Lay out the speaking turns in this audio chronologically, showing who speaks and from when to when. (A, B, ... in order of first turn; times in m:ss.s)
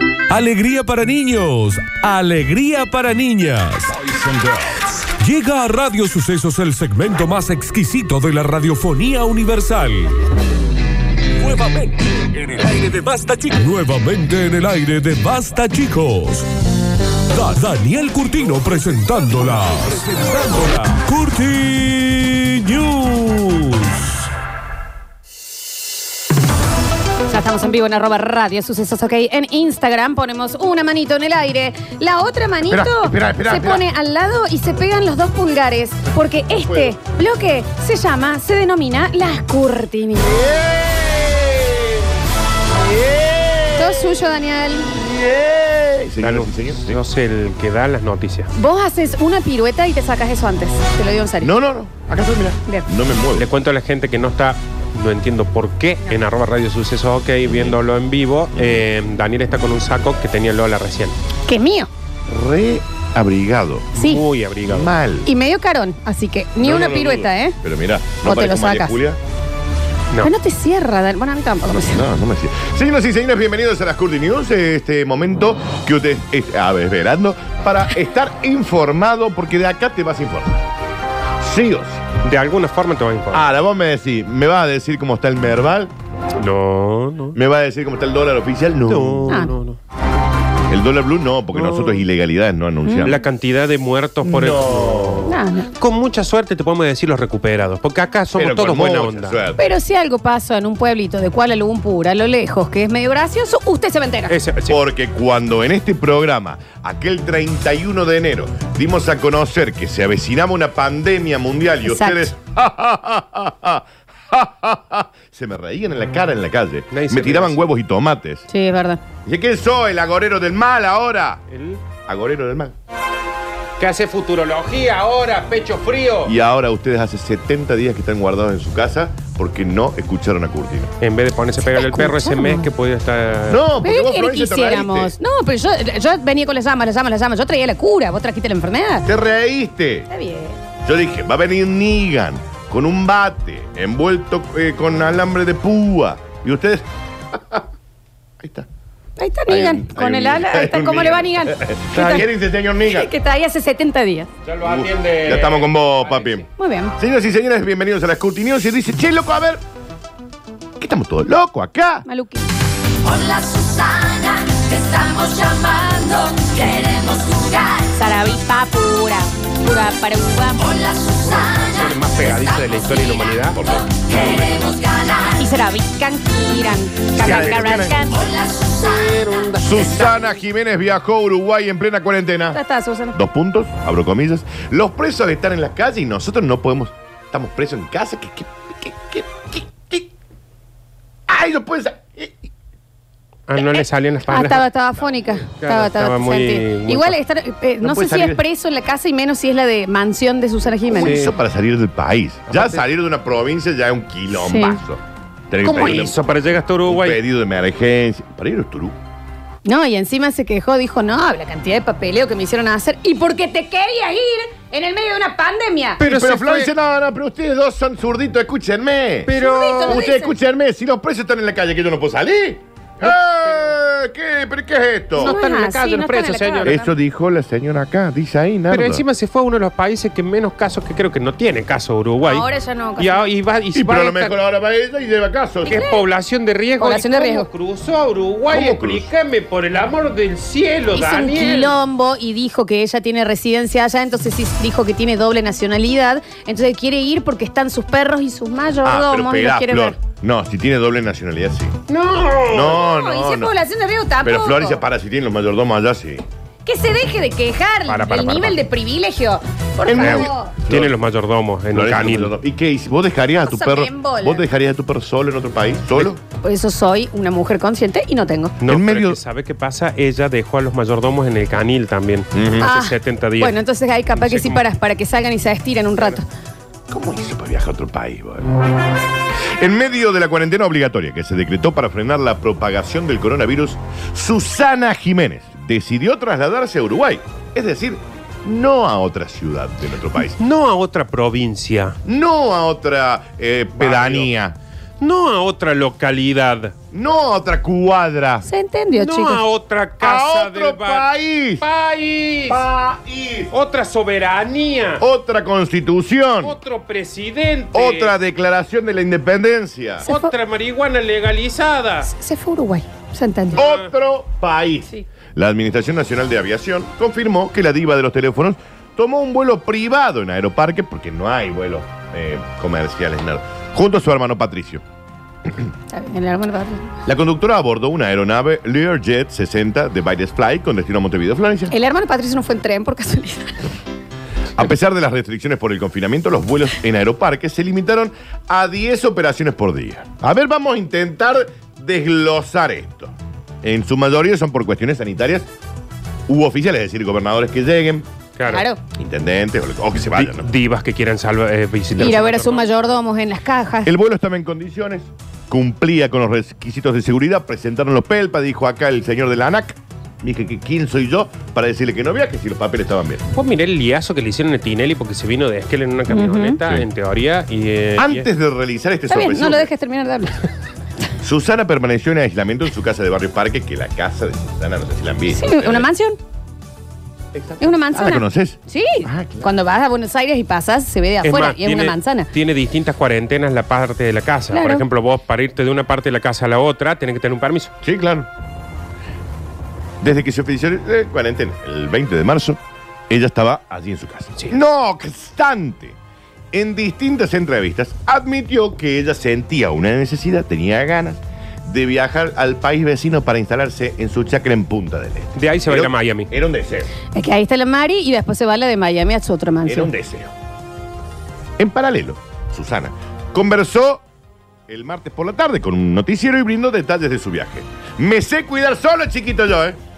0:00.3-0:10.2 A
0:11.4-0:16.5 A
0:17.3-0:24.3 A
0:27.3-0:40.5 B
0:32.7-0:33.8 C
0:36.6-0:36.9 C
0:40.2-0:42.1 C
0:42.8-0:44.2 C
0:43.8-0:44.9 B
0:44.8-0:47.0 C
0:46.2-0:48.5 D
0:48.5-0:51.5 B
0:51.4-0:53.5 C
0:53.4-1:01.2 D
0:57.4-0:57.8 C
0:58.6-0:58.8 C
1:01.5-1:01.9 B
1:02.3-1:03.9 C
1:04.0-1:04.9 D
1:04.0-1:04.2 B
1:04.7-1:05.3 C
1:05.2-1:07.6 B
1:06.6-1:09.2 C
1:08.2-1:09.0 B
1:10.2-1:12.1 B
1:11.8-1:20.7 C
1:21.4-1:22.2 C
1:22.2-1:23.4 D
1:23.3-1:25.9 C
1:26.4-1:27.4 D
1:27.3-1:29.4 C
1:28.9-1:29.8 D
1:30.7-1:33.2 C
1:31.5-1:32.0 D
1:32.8-1:33.1 B
1:33.0-1:39.4 D
1:34.2-1:35.3 C
1:35.3-1:35.7 B
1:38.4-1:39.7 C
1:39.6-1:44.4 B
1:44.3-1:44.8 D
1:44.6-1:58.5 C
1:51.8-1:52.3 B
1:56.9-1:57.6 D
1:58.5-1:59.0 B
1:59.2-2:01.4 C
2:01.5-2:01.8 D
2:02.0-2:02.8 C
2:03.8-2:06.3 D
2:06.2-2:10.9 C
2:11.0-2:13.6 D
2:11.7-2:12.7 B
2:13.5-2:15.1 C
2:13.8-2:19.1 B
2:19.1-2:20.1 C
2:20.1-2:20.6 B
2:20.8-2:27.6 C
2:28.4-2:28.7 C
2:29.2-2:32.3 B
2:29.5-2:33.1 C
2:32.8-2:34.3 B
2:34.4-2:36.5 D
2:34.6-2:36.5 C
2:36.6-2:37.0 B
2:37.0-2:39.6 C
2:40.8-2:42.0 C
2:42.0-2:42.5 B
2:43.1-2:47.6 E
2:47.7-2:50.8 B
2:51.2-2:53.6 D
2:53.5-2:54.8 C
2:55.2-2:58.4 B
2:57.2-2:58.2 D
2:57.2-2:58.2 C
2:58.9-3:00.3 D
2:59.6-3:02.6 C
3:02.5-3:03.2 B
3:03.1-3:10.1 C
3:11.3-3:12.5 C
3:13.5-3:14.7 D
3:14.3-3:21.2 B
3:15.5-3:17.2 D
3:17.8-3:18.4 C
3:20.9-3:26.2 C
3:21.0-3:21.3 D
3:22.5-3:22.8 D
3:24.3-3:24.8 B
3:25.6-3:27.2 D
3:26.9-3:29.0 C
3:29.6-3:36.0 B
3:36.0-3:36.7 D
3:36.0-3:45.3 C
3:39.3-3:40.0 D
3:39.4-3:40.4 B
3:43.0-3:43.6 D
3:45.2-3:46.8 D
3:45.2-3:46.9 B
3:46.6-3:49.0 C
3:48.7-3:52.5 D
3:52.2-3:53.3 B
3:53.0-3:54.4 D
3:53.7-3:55.8 C
3:55.6-3:56.0 B
3:55.7-4:01.8 D
3:56.8-3:57.5 B
3:58.5-3:59.1 C
4:00.9-4:10.0 B
4:08.8-4:11.8 C
4:11.9-4:12.8 D
4:12.5-4:13.5 C
4:12.6-4:14.8 B
4:14.2-4:16.3 C
4:16.6-4:20.5 B
4:17.9-4:18.6 D
4:19.9-4:21.0 C
4:19.9-4:22.3 D
4:21.7-4:26.2 C
4:23.5-4:24.4 B
4:26.3-4:28.6 B
4:28.6-4:33.6 D
4:28.7-4:29.2 C
4:32.3-4:32.7 C
4:32.6-4:36.3 B
4:34.2-4:34.6 D
4:36.9-4:38.6 C
4:39.4-4:50.4 C
4:50.4-4:52.0 D
4:52.0-4:54.6 C
4:53.8-4:54.3 D
4:55.0-4:56.7 D
4:56.9-4:58.5 C
4:58.4-4:59.4 B
4:59.0-5:01.1 D
5:00.0-5:01.6 C
5:01.6-5:02.6 D
5:02.5-5:03.5 C
5:03.5-5:05.0 D
5:05.0-5:06.6 C
5:06.4-5:08.1 D
5:07.7-5:10.1 C
5:10.0-5:10.3 B
5:10.0-5:12.1 D
5:12.0-5:13.6 B
5:13.5-5:13.9 D
5:13.6-5:24.8 C
5:25.9-5:27.0 B
5:27.1-5:31.7 C
5:31.7-5:33.6 B
5:34.6-5:45.5 C
5:46.3-5:48.1 C
5:48.4-5:48.6 D
5:48.5-5:48.8 B
5:48.9-5:50.5 C
5:50.2-5:52.7 D
5:52.0-5:53.9 B
5:53.8-6:03.2 C
6:03.3-6:08.3 D
6:06.1-6:06.6 B
6:08.0-6:09.7 C
6:09.1-6:10.4 B
6:11.2-6:15.9 C
6:15.3-6:16.2 B
6:17.3-6:19.5 C
6:17.6-6:22.3 B
6:21.2-6:27.7 D
6:24.5-6:24.8 B
6:27.8-6:28.3 C
6:30.0-6:36.0 C
6:36.5-6:46.9 C
6:45.4-6:46.3 D
6:47.2-6:49.9 B
6:49.7-6:50.3 C
6:51.6-6:54.0 C
6:54.7-6:59.8 C